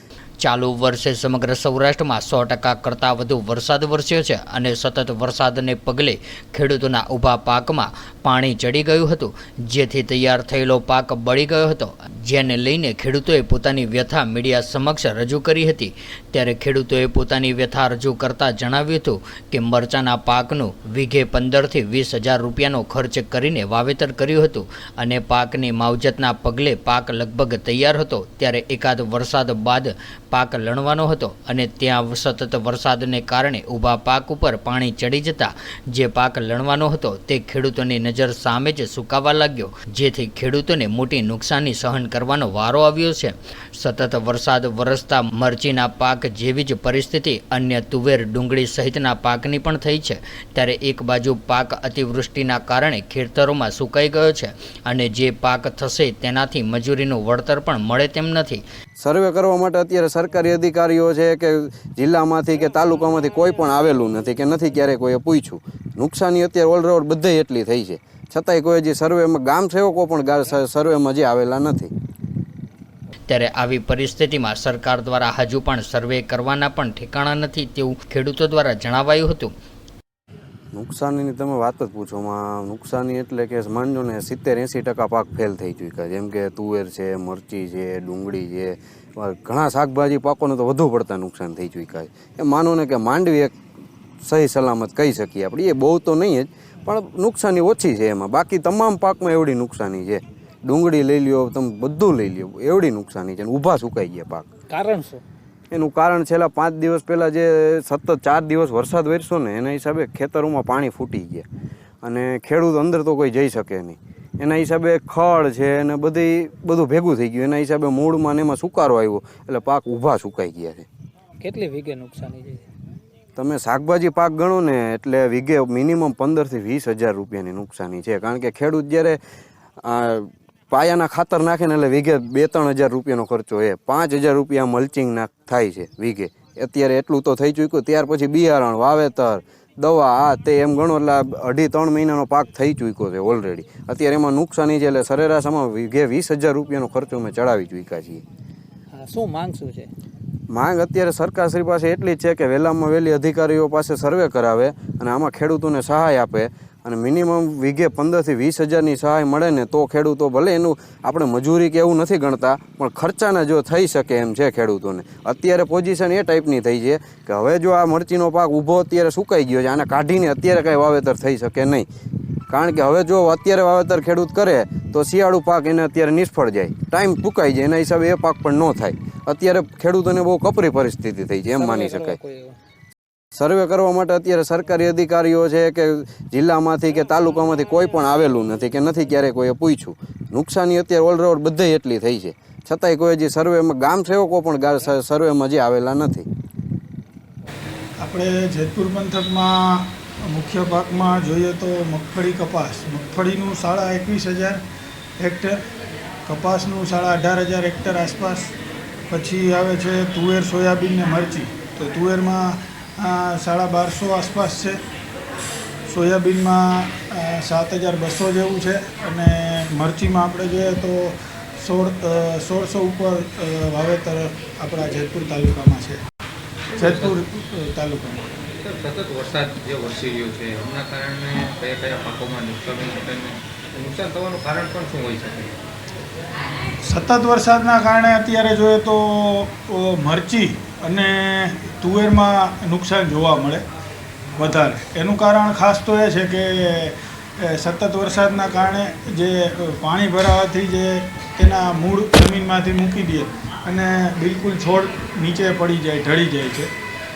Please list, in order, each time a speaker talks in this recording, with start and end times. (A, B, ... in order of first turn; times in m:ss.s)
0:00.4-0:58.6 A
0:59.0-1:11.9 B
1:13.3-1:19.5 A
1:20.7-1:33.5 B
1:34.2-1:44.5 B
1:44.7-1:45.2 C
1:45.7-1:51.4 B
1:52.0-2:00.9 B
2:01.4-2:02.6 C
2:03.4-2:09.2 B
2:09.8-2:28.2 B
2:28.9-2:29.9 C
2:30.5-2:51.9 B
2:52.5-3:02.2 B
3:01.5-3:02.6 C
3:03.3-3:16.3 B
3:18.0-3:24.6 D
3:25.2-3:25.6 D
3:26.3-3:28.5 D
3:29.1-3:34.8 D
3:35.9-3:46.0 D
3:46.7-3:47.2 E
3:46.8-3:48.3 D
3:48.6-3:55.5 E
3:56.8-4:03.6 D
4:04.4-4:16.7 D